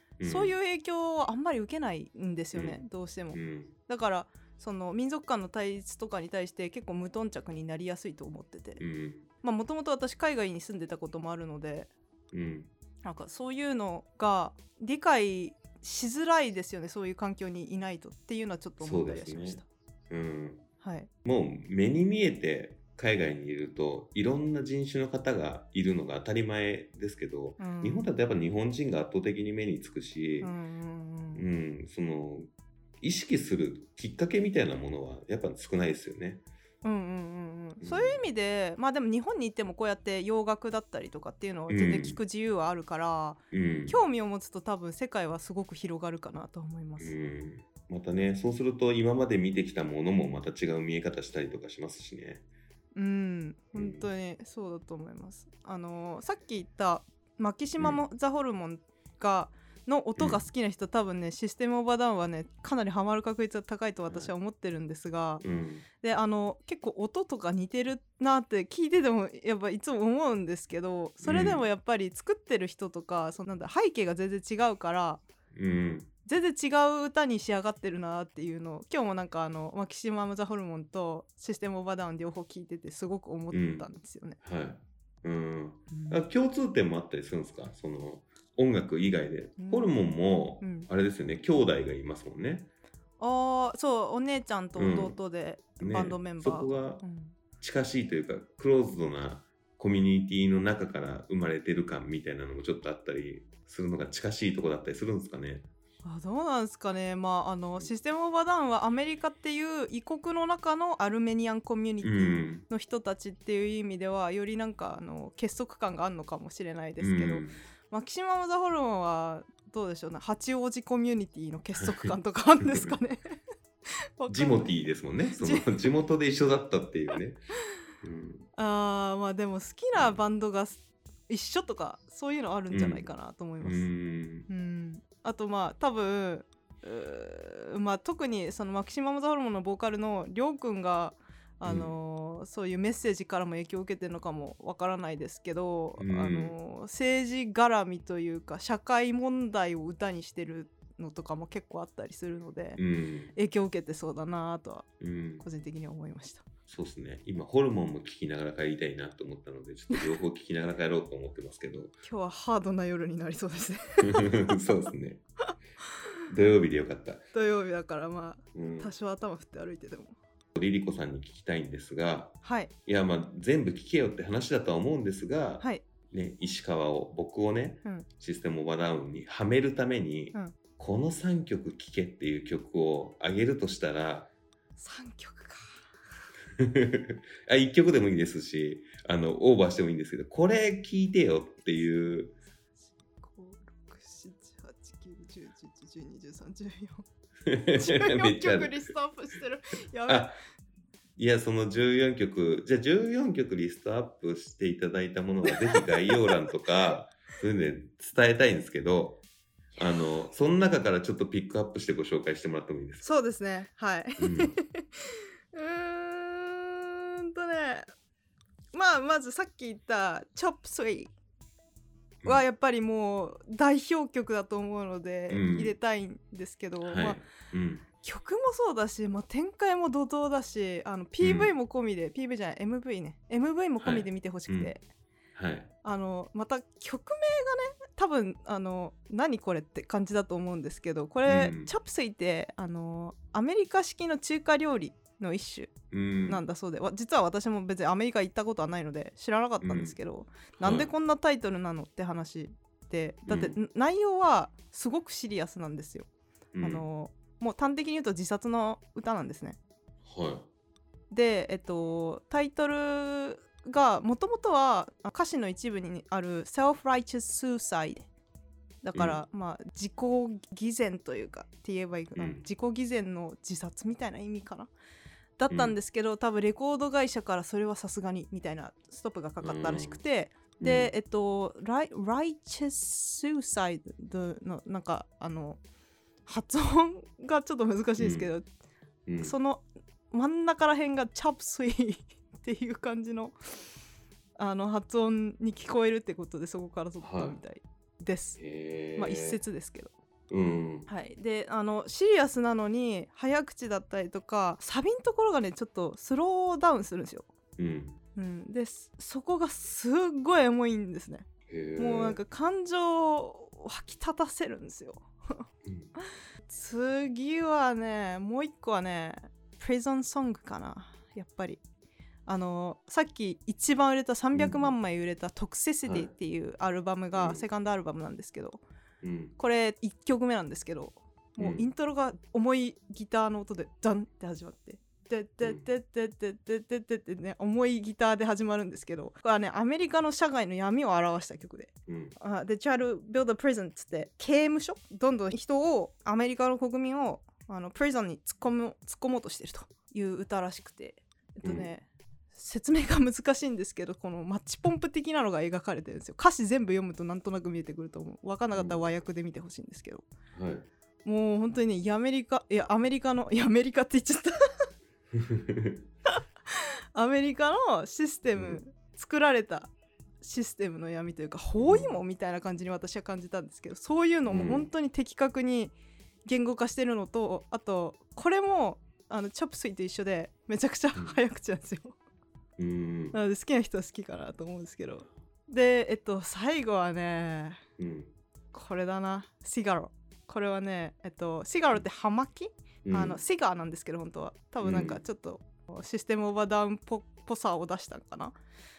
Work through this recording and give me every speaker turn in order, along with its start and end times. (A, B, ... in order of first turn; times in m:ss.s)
0:00.2-0:00.5 A
0:00.2-0:08.8 B
0:03.3-0:03.7 A
0:08.8-0:09.3 A
0:09.4-0:11.9 B
0:12.3-0:12.7 A
0:13.0-0:19.6 B
0:18.8-0:20.6 A
0:20.8-0:21.1 B
0:21.2-0:30.5 A
0:27.6-0:28.1 B
0:30.4-0:31.4 B
0:31.3-0:32.5 A
0:33.0-0:36.4 A
0:36.8-0:47.1 B
0:37.8-0:38.2 A
0:41.7-0:42.2 A
0:43.5-0:44.0 A
0:47.0-0:52.4 A
0:52.9-1:05.4 B
0:53.7-0:54.1 A
1:00.2-1:00.5 A
1:04.0-1:04.3 A
1:05.4-1:05.9 A
1:06.0-1:15.2 B
1:11.2-1:11.6 A
1:15.5-1:16.1 A
1:16.2-1:24.4 B
1:23.5-1:23.9 A
1:24.4-1:32.7 A
1:25.9-1:26.2 B
1:29.6-1:29.9 B
1:30.6-1:30.9 B
1:33.2-1:37.3 B
1:34.8-1:35.2 A
1:35.8-1:37.0 A
1:37.6-1:45.7 A
1:46.0-2:03.3 B
1:52.0-1:52.6 A
1:57.0-1:57.6 A
2:01.8-2:02.9 A
2:04.2-2:04.7 B
2:04.3-2:07.4 A
2:05.4-2:05.7 B
2:08.0-2:08.5 A
2:08.6-2:13.8 B
2:09.9-2:10.2 A
2:12.7-2:13.1 A
2:13.6-2:14.5 A
2:14.5-2:32.8 B
2:21.6-2:21.9 A
2:26.0-2:26.5 A
2:32.8-2:33.3 A
2:33.3-2:34.9 B
2:35.0-2:35.4 A
2:35.4-2:36.4 B
2:36.7-2:42.0 A
2:42.0-2:44.5 B
2:44.0-2:45.2 A
2:46.3-2:47.2 A
2:47.3-2:50.2 B
2:48.5-2:48.9 A
2:50.5-3:04.3 A
2:52.4-2:52.7 B
3:04.8-3:05.9 B
3:06.6-3:12.3 A
3:11.7-3:12.2 B
3:12.8-3:17.0 B
3:17.4-3:18.9 A
3:17.7-3:20.3 B
3:20.1-3:20.4 A
3:21.2-3:29.2 A
3:25.5-3:26.4 B
3:29.8-3:33.0 A
3:33.0-3:37.9 B
3:34.2-3:34.6 A
3:38.7-3:41.1 B
3:42.2-3:47.2 B
3:45.3-3:45.7 A
3:46.8-3:47.8 A
3:48.0-3:54.8 B
3:51.2-3:51.5 A
3:53.8-3:54.7 A
3:55.3-3:55.7 A
3:55.8-4:05.7 B
4:01.2-4:01.7 A
4:05.9-4:06.4 A
4:06.2-4:16.1 B
4:09.6-4:10.0 A
4:10.6-4:10.9 A
4:13.3-4:13.6 A
4:16.5-4:16.8 A
4:16.6-4:19.6 B
4:20.0-4:20.5 A
4:21.1-4:28.0 B
4:28.8-4:34.7 B
4:28.9-4:29.2 A
4:32.2-4:32.4 A
4:35.4-4:45.6 B
4:35.5-4:35.8 A
4:39.4-4:40.0 A
4:40.6-4:40.9 A
4:46.2-4:48.4 B
4:48.0-4:48.3 A
4:49.1-4:49.3 A
4:49.2-4:53.4 B
4:54.4-4:58.4 B
4:57.0-4:57.4 A
4:58.4-4:59.4 A
4:58.9-4:59.9 B
5:00.3-5:00.9 A
5:00.9-5:07.3 B
5:07.6-5:08.0 A
5:08.2-5:15.4 B
5:11.5-5:12.2 A
5:15.6-5:15.9 A
5:16.5-5:21.6 B
5:22.2-5:28.6 B
5:24.3-5:24.7 A
5:25.8-5:26.1 A
5:27.1-5:27.4 A
5:29.0-5:29.3 A
5:29.4-6:00.1 B
5:31.4-5:31.6 A
5:41.9-5:42.1 A
5:51.4-5:51.7 A
5:58.5-5:58.8 A
6:00.3-6:00.7 A
6:01.0-6:04.3 B
6:05.1-6:05.8 A
6:06.1-6:09.7 B
6:08.4-6:08.6 A
6:10.2-6:15.7 B
6:11.6-6:12.0 A
6:14.3-6:14.7 A
6:16.2-6:22.0 B
6:22.6-6:23.2 A
6:23.1-6:27.6 B
6:27.8-6:28.1 A
6:28.5-6:38.4 B
6:32.8-6:33.2 A
6:34.6-6:35.0 A